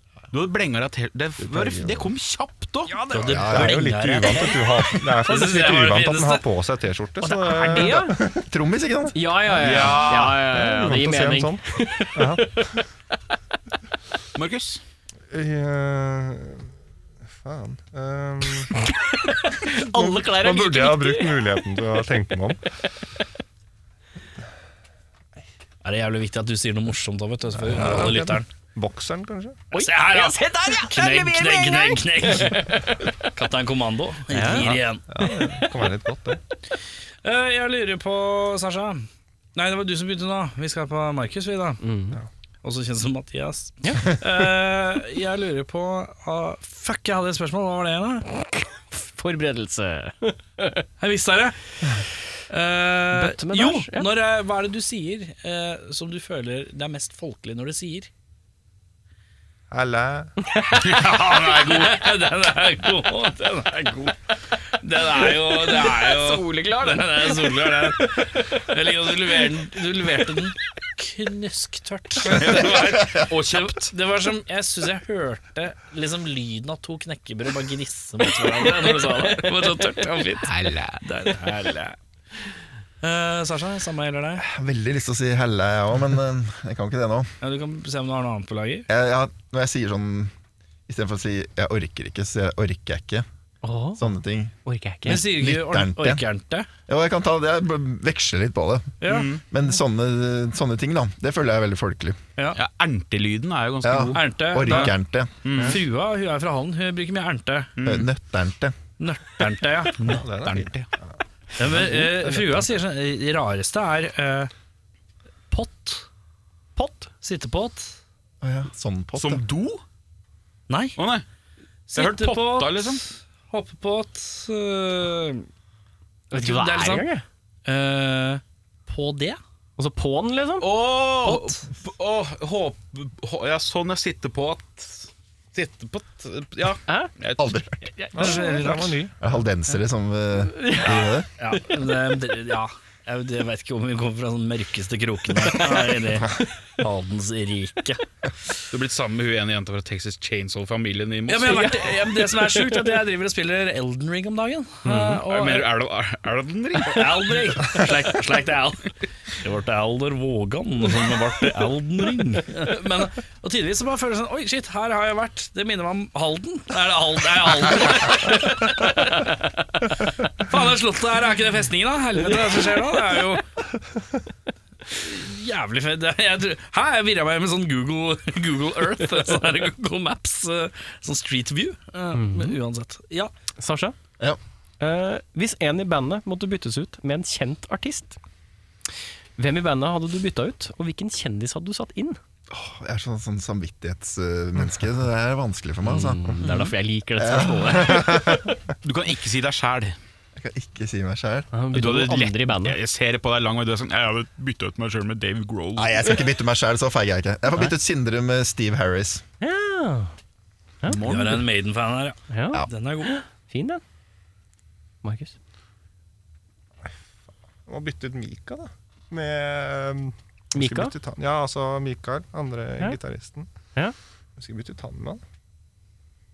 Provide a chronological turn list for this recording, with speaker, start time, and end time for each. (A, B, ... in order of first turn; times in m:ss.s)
0:00.3-0:03.0 A
0:01.4-0:02.1 B
0:02.9-0:06.4 C
0:03.2-0:08.5 D
0:03.3-0:03.9 B
0:07.2-0:08.2 E
0:08.4-0:09.2 B
0:09.1-0:12.8 E
0:09.6-0:10.4 A
0:09.6-0:12.8 D
0:14.4-0:14.8 A
0:15.3-0:16.7 D
0:17.4-0:18.8 D
0:19.1-0:21.4 E
0:19.8-0:22.6 D
0:25.8-0:28.5 C
0:27.6-0:29.7 D
0:29.7-0:33.1 E
0:29.7-0:35.0 C
0:34.3-0:35.7 E
0:35.1-0:36.4 D
0:37.2-0:41.8 C
0:41.8-0:42.2 E
0:42.6-0:48.3 C
0:48.6-0:50.9 E
0:51.0-0:51.6 C
0:52.5-0:58.1 C
0:53.1-0:54.1 E
0:59.7-1:00.3 D
1:00.7-1:02.0 A
1:00.8-1:04.2 C
1:04.7-1:22.0 C
1:05.5-1:08.6 E
1:12.2-1:13.9 A
1:18.8-1:19.5 E
1:20.4-1:21.0 A
1:23.0-1:24.4 C
1:24.4-1:27.3 B
1:27.4-1:28.9 C
1:28.9-1:30.3 B
1:30.9-1:33.3 B
1:33.6-1:34.1 E
1:34.0-1:34.5 B
1:34.6-1:35.2 E
1:35.1-1:36.2 B
1:35.1-1:36.7 C
1:36.9-1:39.0 B
1:39.0-1:39.4 C
1:39.1-1:39.4 A
1:39.5-1:42.2 B
1:42.5-1:45.8 A
1:43.8-1:45.3 B
1:44.1-1:45.0 C
1:45.6-1:47.7 C
1:47.8-1:48.1 A
1:47.8-1:48.8 B
1:49.0-1:50.1 C
1:50.0-1:50.9 A
1:50.0-1:51.1 D
1:51.6-1:54.5 C
1:55.5-1:56.1 C
1:56.8-1:57.1 E
1:57.2-1:58.0 C
1:58.4-1:59.4 B
1:59.2-1:59.8 A
2:00.7-2:01.0 C
2:01.0-2:01.2 A
2:01.9-2:05.5 C
2:01.9-2:03.0 A
2:06.3-2:07.2 E
2:06.3-2:07.1 C
2:07.6-2:09.4 C
2:09.8-2:10.7 E
2:10.6-2:17.6 A
2:11.2-2:11.7 C
2:16.9-2:17.1 E
2:17.4-2:17.8 B
2:17.9-2:18.9 E
2:18.2-2:19.2 D
2:18.2-2:19.0 C
2:19.2-2:21.3 B
2:20.5-2:21.7 E
2:21.4-2:28.0 C
2:25.5-2:26.0 E
2:28.7-2:32.0 A
2:31.3-2:35.7 C
2:32.6-2:32.9 E
2:34.8-2:35.2 E
2:35.2-2:37.2 A
2:36.8-2:49.4 C
2:50.4-2:53.4 C
2:54.9-3:03.3 C
3:02.1-3:02.6 E
3:03.6-3:04.0 E
3:04.8-3:08.2 E
3:09.4-3:12.2 E
3:12.5-3:16.3 B
3:15.8-3:18.6 E
3:17.2-3:18.1 B
3:17.9-3:18.5 D
3:18.8-3:20.0 A
3:20.4-3:21.5 B
3:21.5-3:22.8 E
3:21.7-3:26.1 A
3:25.8-3:29.2 B
3:29.4-3:30.1 E
3:30.9-3:31.5 A
3:31.0-3:33.2 C
3:32.3-3:33.8 E
3:35.0-3:35.4 E
3:37.7-3:43.5 D
3:40.5-3:41.0 E
3:44.4-3:45.2 D